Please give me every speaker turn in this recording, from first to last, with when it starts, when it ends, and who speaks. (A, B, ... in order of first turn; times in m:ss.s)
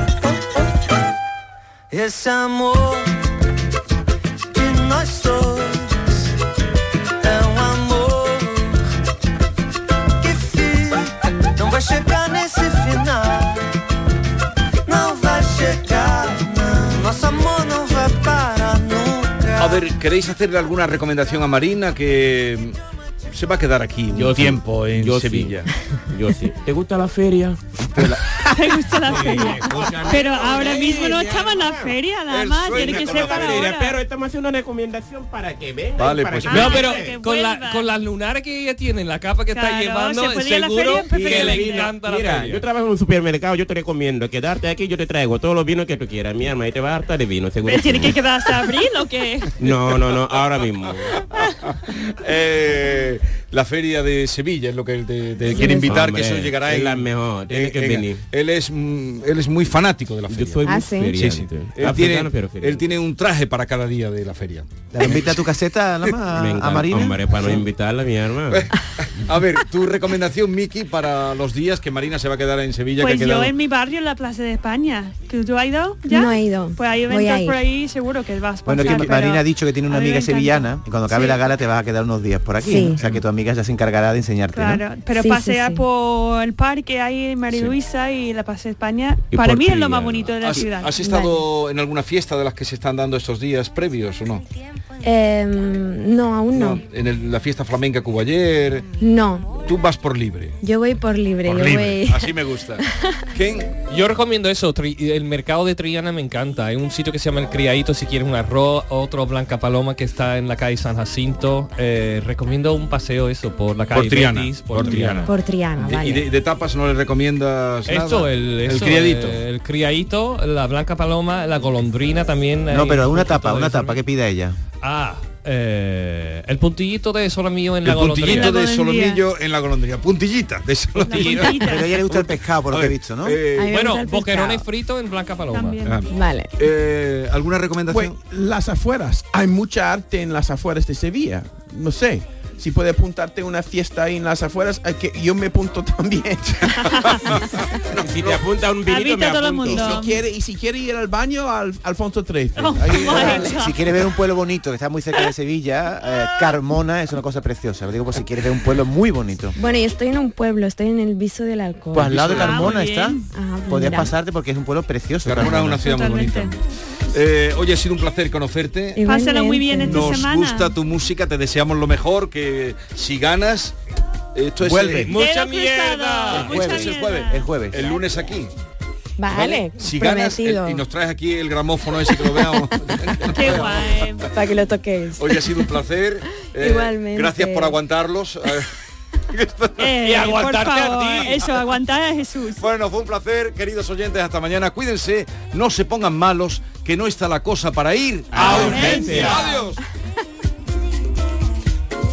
0:01.9-0:03.2 A
0:04.5-0:06.3 A
0:07.2-0:08.8 A
0:10.2-0:13.7 A
0:14.8-0:19.8 A
0:19.6-0:22.8 B
0:23.3-0:25.7 B
0:24.1-0:25.5 C
0:26.1-0:27.6 C
0:27.9-0:28.2 B
0:28.4-0:34.0 D
0:29.0-0:32.0 C
0:29.2-0:30.1 B
0:32.3-0:33.7 B
0:32.7-0:37.1 C
0:36.0-0:36.8 B
0:36.4-0:37.9 D
0:36.5-0:42.6 E
0:39.5-0:41.8 D
0:41.1-0:48.2 C
0:47.6-0:49.5 D
0:49.6-0:51.2 C
0:51.9-1:05.3 B
0:55.4-0:56.0 F
0:55.5-0:58.2 C
1:00.3-1:02.8 C
1:00.6-1:01.1 F
1:04.9-1:07.3 G
1:06.3-1:08.6 C
1:08.5-1:13.5 B
1:13.0-1:21.4 D
1:16.1-1:17.6 F
1:18.6-1:24.8 G
1:22.6-1:23.0 F
1:22.8-1:23.2 B
1:24.5-1:31.0 D
1:25.1-1:25.8 F
1:27.5-1:27.7 B
1:29.4-1:30.1 C
1:29.4-1:34.4 B
1:31.0-1:31.4 F
1:35.0-1:36.8 F
1:36.5-1:38.9 B
1:39.0-1:39.5 F
1:39.6-1:40.6 B
1:40.6-1:43.1 F
1:41.4-1:43.7 B
1:43.9-1:55.3 E
1:53.9-1:59.4 B
1:55.2-1:56.3 F
1:57.9-2:04.0 E
2:02.7-2:04.6 G
2:04.8-2:08.5 E
2:07.8-2:13.8 B
2:08.2-2:09.2 D
2:11.0-2:12.0 D
2:11.5-2:13.4 G
2:13.5-2:14.6 F
2:13.7-2:15.8 E
2:15.5-2:16.0 D
2:15.8-2:18.2 B
2:16.1-2:16.5 F
2:17.9-2:26.8 H
2:26.6-2:28.4 B
2:26.7-2:27.4 D
2:28.0-2:30.0 C
2:28.8-2:30.2 D
2:29.8-2:33.6 H
2:32.6-2:33.8 D
2:33.0-2:39.6 G
2:39.6-2:42.7 F
2:41.9-2:45.9 G
2:42.2-2:43.2 D
2:43.3-2:44.1 F
2:45.2-2:46.6 B
2:45.6-2:46.5 D
2:47.1-2:49.0 B
2:48.9-2:50.1 F
2:49.0-2:50.8 D
2:49.8-2:53.8 B
2:54.3-2:55.1 B
2:54.6-2:55.1 H
2:55.0-2:56.8 E
2:55.0-2:58.0 D
2:56.3-2:58.5 B
2:56.5-2:57.9 G
2:59.2-3:00.8 F
2:59.3-3:04.3 B
3:03.2-3:04.3 D
3:04.4-3:05.7 F
3:05.2-3:08.7 B
3:06.4-3:07.8 F
3:09.3-3:11.4 B
3:09.8-3:12.6 D
3:10.0-3:11.4 E
3:12.6-3:19.8 B
3:18.3-3:19.4 C
3:18.5-3:19.5 D